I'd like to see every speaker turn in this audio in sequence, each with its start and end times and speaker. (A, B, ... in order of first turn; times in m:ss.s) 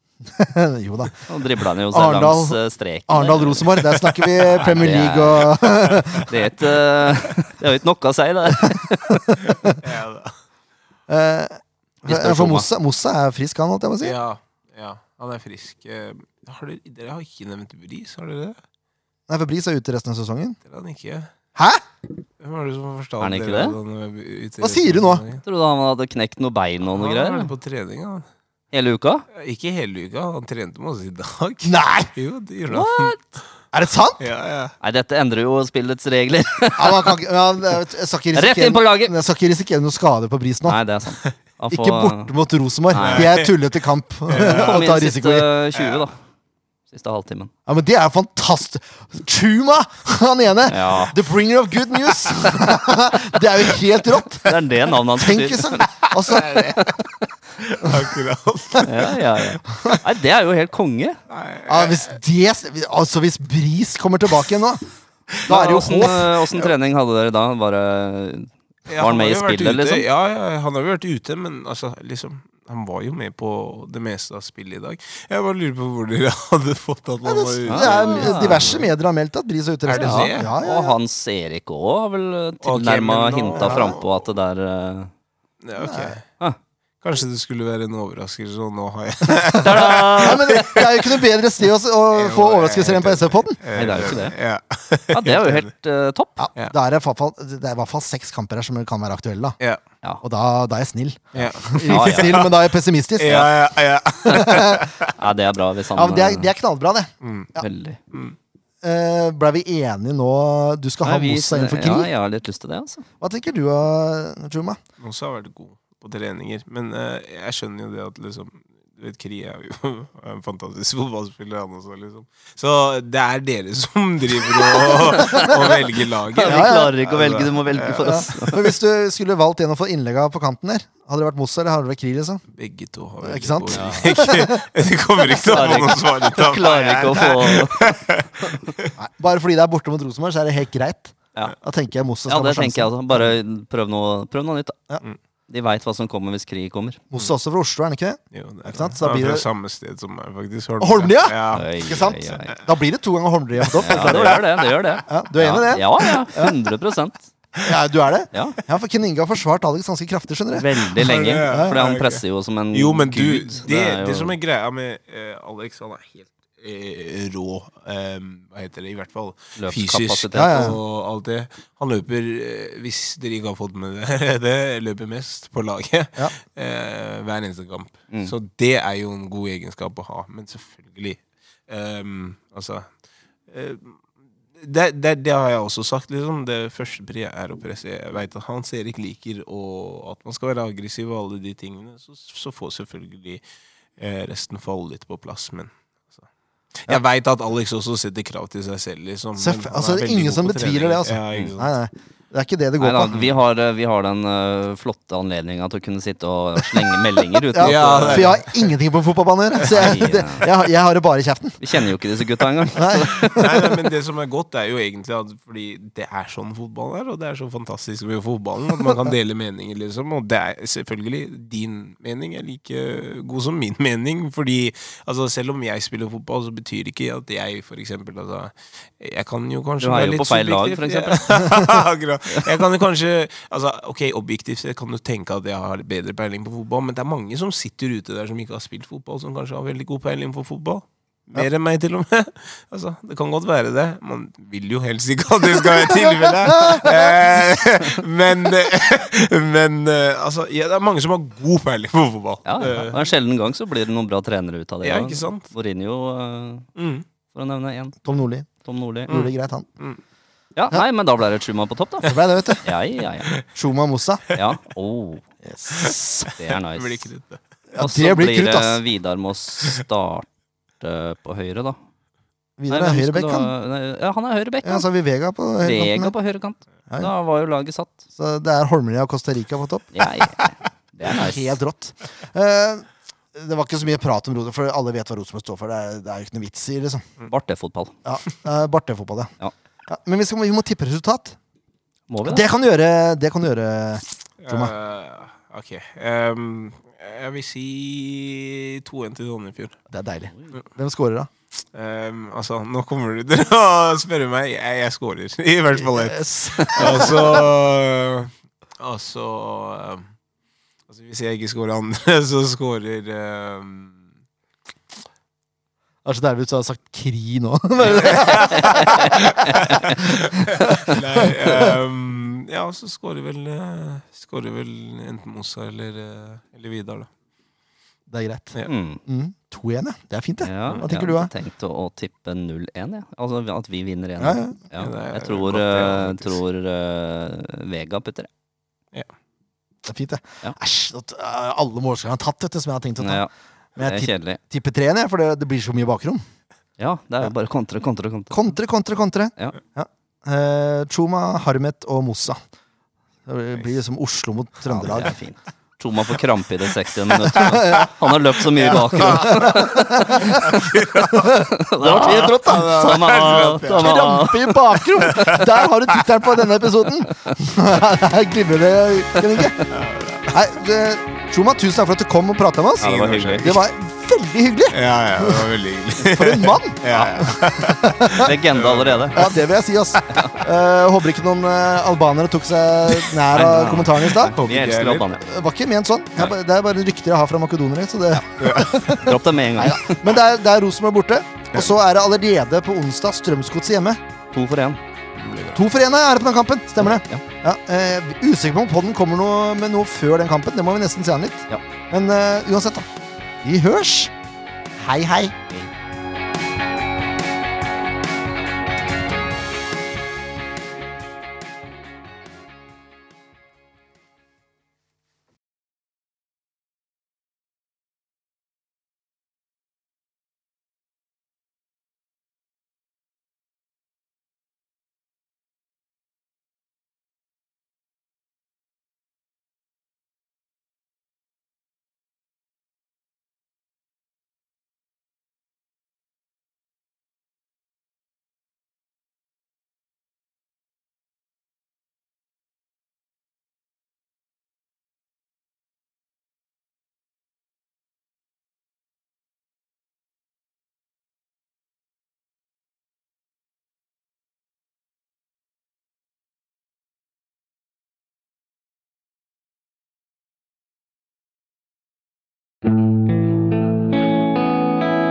0:00.3-0:01.2 A
0:01.3-0:05.7 B
0:01.9-0:06.3 A
0:05.9-0:06.4 C
0:06.2-0:09.3 B
0:08.8-0:09.8 A
0:09.4-0:10.4 C
0:11.1-0:14.1 A
0:12.0-0:12.7 B
0:14.0-0:18.6 C
0:19.3-0:20.6 A
0:20.6-0:21.3 C
0:21.6-0:21.8 A
0:22.4-0:25.4 C
0:23.2-0:23.8 B
0:24.6-0:25.2 A
0:25.4-0:27.5 B
0:26.8-0:28.3 C
0:28.7-0:29.2 B
0:29.3-0:33.2 C
0:31.6-0:32.1 A
0:32.7-0:33.2 B
0:33.7-0:34.2 A
0:34.2-0:34.7 C
0:34.8-0:37.1 B
0:36.8-0:40.8 A
0:38.3-0:39.1 B
0:40.6-0:42.3 B
0:41.7-0:45.5 A
0:42.9-0:43.3 B
0:42.9-0:43.5 C
0:44.3-0:44.8 C
0:44.3-0:46.2 B
0:45.7-0:46.1 C
0:46.9-0:47.5 B
0:47.7-0:54.6 A
0:50.7-0:51.2 B
0:54.4-0:57.3 B
0:55.1-0:56.6 A
0:56.0-0:57.0 C
0:57.6-0:59.4 C
0:58.8-1:01.2 B
0:59.7-1:00.0 A
1:01.3-1:02.1 C
1:01.6-1:04.8 A
1:05.4-1:06.5 A
1:05.5-1:10.0 B
1:08.9-1:18.9 C
1:17.2-1:21.0 A
1:17.7-1:18.9 B
1:19.9-1:20.5 C
1:20.0-1:25.1 B
1:22.6-1:24.2 C
1:23.6-1:24.0 A
1:25.6-1:26.2 C
1:25.8-1:26.2 A
1:27.0-1:31.0 C
1:29.3-1:33.6 A
1:29.6-1:30.9 B
1:32.1-1:35.7 C
1:33.7-1:34.4 B
1:35.1-1:36.4 B
1:36.4-1:39.6 A
1:40.2-1:43.6 A
1:41.3-1:42.6 C
1:41.4-1:42.5 B
1:43.2-1:45.2 C
1:44.3-1:44.9 A
1:45.2-1:46.5 B
1:45.9-1:47.6 A
1:47.2-1:47.5 C
1:47.6-1:48.0 B
1:48.1-1:48.4 C
1:48.8-1:52.1 A
1:51.0-1:53.0 B
1:53.2-1:54.8 A
1:55.0-2:08.5 C
2:04.5-2:08.7 B
2:04.9-2:05.8 A
2:06.4-2:12.4 A
2:12.5-2:18.9 C
2:13.2-2:14.6 A
2:13.7-2:14.1 B
2:15.3-2:18.7 B
2:19.0-2:23.3 A
2:22.3-2:24.8 B
2:25.5-2:27.0 B
2:27.1-2:29.5 A
2:28.3-2:31.7 C
2:30.8-2:34.4 A
2:31.5-2:32.6 B
2:33.8-2:37.3 B
2:33.8-2:34.8 C
2:35.0-2:36.6 A
2:37.6-2:40.7 A
2:38.3-2:38.6 B
2:40.5-2:44.4 B
2:41.0-3:02.9 C
2:41.4-2:41.8 A
2:49.6-2:50.7 B
2:50.3-2:50.8 A
3:03.5-3:04.0 C
3:04.6-3:13.4 C
3:14.0-3:16.2 C
3:16.8-3:21.8 C
3:19.4-3:23.4 A
3:21.3-3:21.6 B
3:22.8-3:28.4 B
3:27.4-3:31.6 A
3:27.6-3:28.7 C
3:29.6-3:30.5 B
3:31.6-3:33.4 B
3:32.8-3:33.7 A
3:33.1-4:13.1 C
3:49.8-3:51.5 B
4:06.5-4:07.0 A
4:12.4-4:16.7 B
4:14.8-4:15.5 C
4:16.8-4:17.0 C
4:17.3-4:18.0 B
4:18.0-4:18.5 A
4:18.6-4:19.1 B
4:19.0-4:19.6 A
4:19.1-4:20.0 C
4:20.6-4:23.3 B
4:22.0-4:22.7 A
4:23.5-4:24.2 A
4:24.3-4:25.2 B
4:25.4-4:26.3 A
4:25.8-4:27.4 C
4:26.3-4:27.1 B
4:27.7-4:28.8 A
4:27.8-4:30.3 B
4:30.8-4:31.8 B
4:32.6-4:33.5 A
4:32.7-4:34.8 B
4:34.6-4:36.1 A
4:35.6-4:38.0 B
4:38.2-4:40.0 A
4:39.9-4:41.6 B
4:41.0-4:47.1 A
4:47.2-4:48.0 B
4:48.0-4:49.3 A
4:49.9-4:51.4 A
4:52.1-4:52.5 B
4:52.2-4:54.7 A
4:54.4-4:59.8 C
4:59.9-5:01.3 A
5:01.7-5:10.1 C
5:05.8-5:07.5 A
5:10.9-5:14.0 C
5:16.0-5:21.8 A
5:17.8-5:27.1 C
5:18.6-5:19.9 B
5:28.1-5:28.5 A
5:28.6-5:29.0 B
5:29.0-5:31.3 A
5:30.4-5:38.3 B
5:34.2-5:34.6 A
5:34.7-5:36.4 C
5:39.8-5:46.2 A
5:43.0-5:44.4 B
5:46.8-5:48.3 B
5:48.3-5:52.4 A
5:53.2-5:55.2 A
5:54.6-6:00.4 B
5:57.3-5:57.9 C
5:57.4-5:57.9 A
5:58.4-6:01.4 C
5:59.2-6:09.6 A
6:01.4-6:04.8 B
6:02.0-6:04.0 C
6:05.0-6:06.0 C
6:09.7-6:10.3 C
6:10.3-6:12.9 A
6:12.8-6:13.5 B
6:12.8-6:13.6 C
6:13.4-6:15.5 A
6:14.7-6:19.3 C
6:16.0-6:18.3 A
6:18.2-6:19.3 B
6:19.1-6:24.4 A
6:20.1-6:20.4 B
6:23.3-6:25.2 B
6:24.3-6:25.1 C
6:25.2-6:34.0 A
6:28.4-6:29.0 C
6:28.9-6:30.0 B
6:34.3-6:34.8 B
6:35.1-6:35.6 C
6:35.5-6:42.9 A
6:36.8-6:37.2 B
6:43.4-6:44.1 A
6:44.8-6:45.4 A